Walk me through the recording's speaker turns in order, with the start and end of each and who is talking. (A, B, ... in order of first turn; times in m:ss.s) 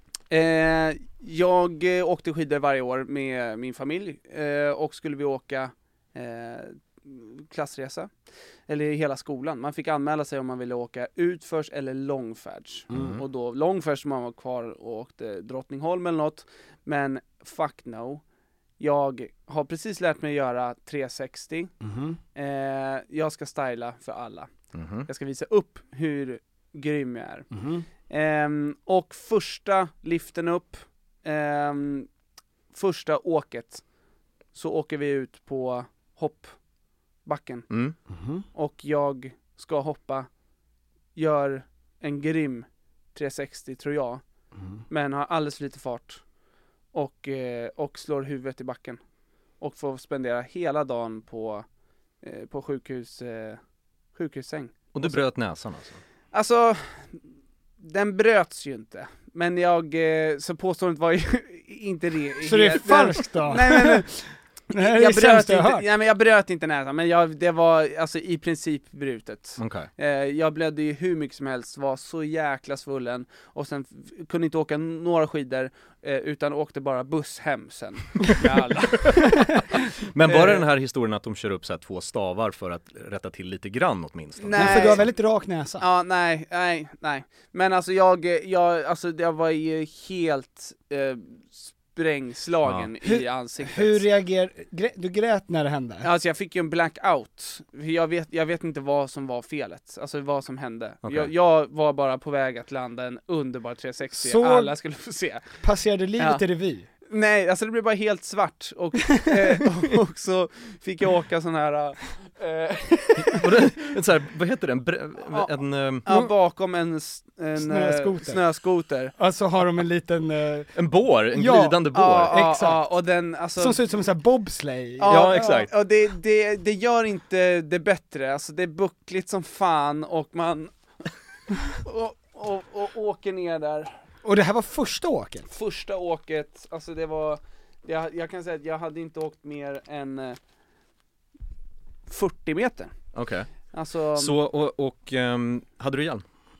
0:00.3-0:08.1 A
0:08.7-0:18.2 A
0:12.9-0:13.2 B
0:18.8-0:21.7 A
0:21.8-0:22.2 C
0:22.4-0:24.5 A
0:24.7-0:25.1 B
0:25.0-0:27.5 A
0:27.5-0:27.8 C
0:28.1-0:32.1 A
0:32.7-0:33.8 A
0:34.5-0:36.6 A
0:37.2-0:37.7 A
0:37.7-0:38.0 B
0:38.1-0:38.4 C
0:38.5-0:40.3 A
0:41.1-0:44.2 A
0:44.9-0:46.2 A
0:46.9-0:49.0 A
0:49.6-0:51.6 A
0:52.2-0:53.6 A
0:54.1-0:55.2 A
0:54.9-0:56.0 B
0:56.3-0:57.2 A
0:57.8-1:04.0 A
1:02.4-1:05.8 C
1:04.7-1:19.5 A
1:09.6-1:09.9 B
1:20.1-1:25.0 B
1:20.3-1:20.6 A
1:24.4-1:25.0 A
1:24.5-1:25.9 C
1:25.8-1:34.0 A
1:33.0-1:36.1 C
1:36.0-1:45.5 A
1:41.0-1:41.3 B
1:44.2-1:44.7 C
1:45.6-1:46.9 C
1:46.2-1:46.4 A
1:47.1-1:53.4 A
1:49.3-1:49.6 C
1:53.2-1:56.0 B
1:56.0-1:59.1 A
1:57.6-1:58.4 C
1:59.1-2:02.9 C
2:00.8-2:02.4 B
2:01.9-2:03.8 A
2:03.6-2:05.4 C
2:05.0-2:10.7 A
2:05.1-2:05.7 B
2:11.8-2:13.9 A
2:14.2-2:15.5 C
2:15.5-2:20.4 A
2:22.1-2:22.9 A
2:23.1-2:23.5 B
2:23.7-2:24.3 A
2:24.2-2:26.2 B